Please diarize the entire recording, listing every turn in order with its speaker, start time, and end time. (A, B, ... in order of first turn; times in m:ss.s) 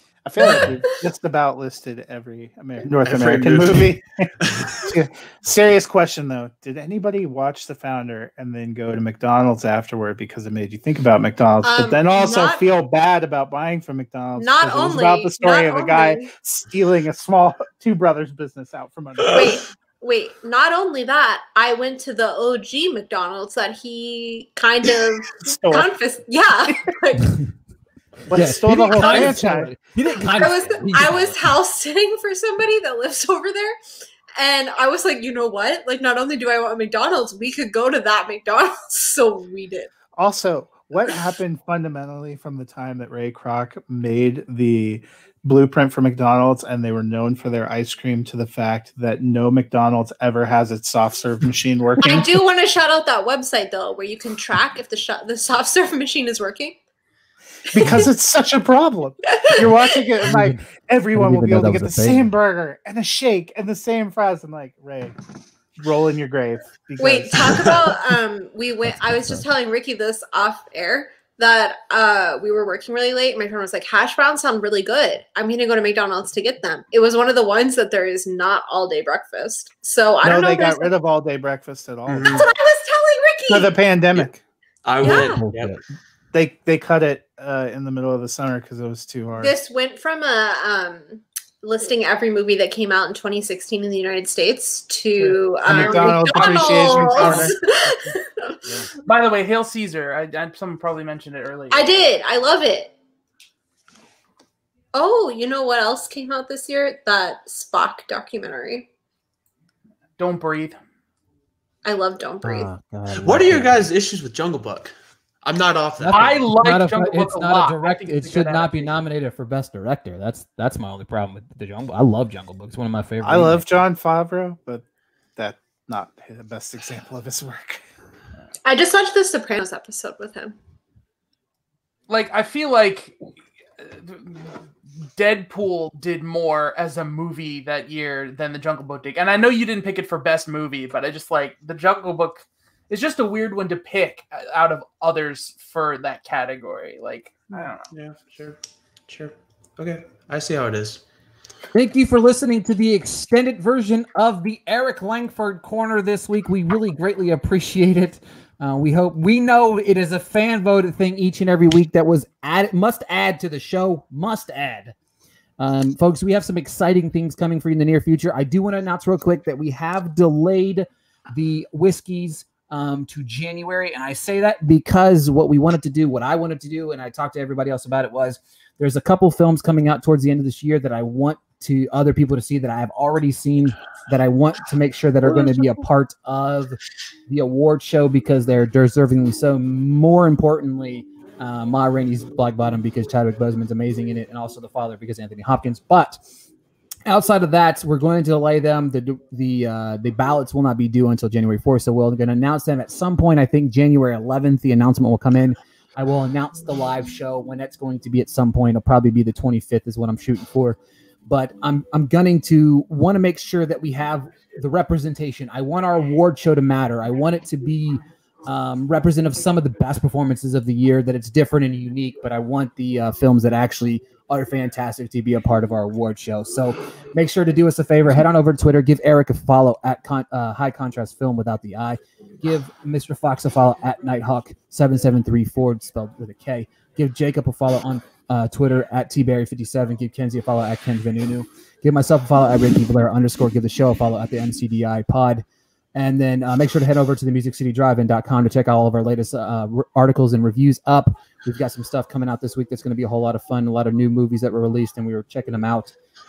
0:00.2-0:19.6 A
0:00.4-0:01.0 B
0:03.0-0:04.9 C
0:11.6-0:12.6 B
0:14.4-0:16.3 B
0:19.3-0:27.4 B
0:25.4-0:25.9 A
0:28.3-0:29.7 A
0:28.3-0:31.5 D
0:28.9-0:29.4 B
0:30.2-0:33.8 B
0:34.4-0:39.9 B
0:40.2-0:52.4 A
0:52.0-0:56.8 B
0:57.7-0:58.1 B
0:57.7-1:05.2 A
0:59.3-1:00.1 B
1:00.2-1:02.3 D
1:05.8-1:08.0 A
1:07.0-1:20.9 B
1:08.9-1:09.4 D
1:20.2-1:22.5 A
1:22.1-1:22.5 C
1:22.3-1:23.7 B
1:23.5-1:24.4 A
1:24.8-1:25.7 C
1:25.0-1:25.4 B
1:25.0-1:25.8 D
1:26.3-1:29.5 A
1:29.4-1:38.6 B
1:35.1-1:37.5 E
1:35.6-1:37.5 A
1:39.0-1:42.1 E
1:41.7-1:42.9 B
1:44.9-1:48.9 B
1:50.2-1:50.8 E
1:51.8-1:52.7 B
1:52.4-1:53.9 D
1:53.1-1:56.4 C
1:56.0-2:03.7 D
1:56.1-1:58.9 E
2:03.2-2:04.8 A
2:05.4-2:07.8 A
2:08.6-2:10.6 B
2:12.1-2:13.2 E
2:13.8-2:27.9 E
2:27.9-2:31.0 C
2:31.7-2:44.9 D
2:45.6-3:16.2 D
3:17.0-4:05.4 D
4:05.9-4:15.9 D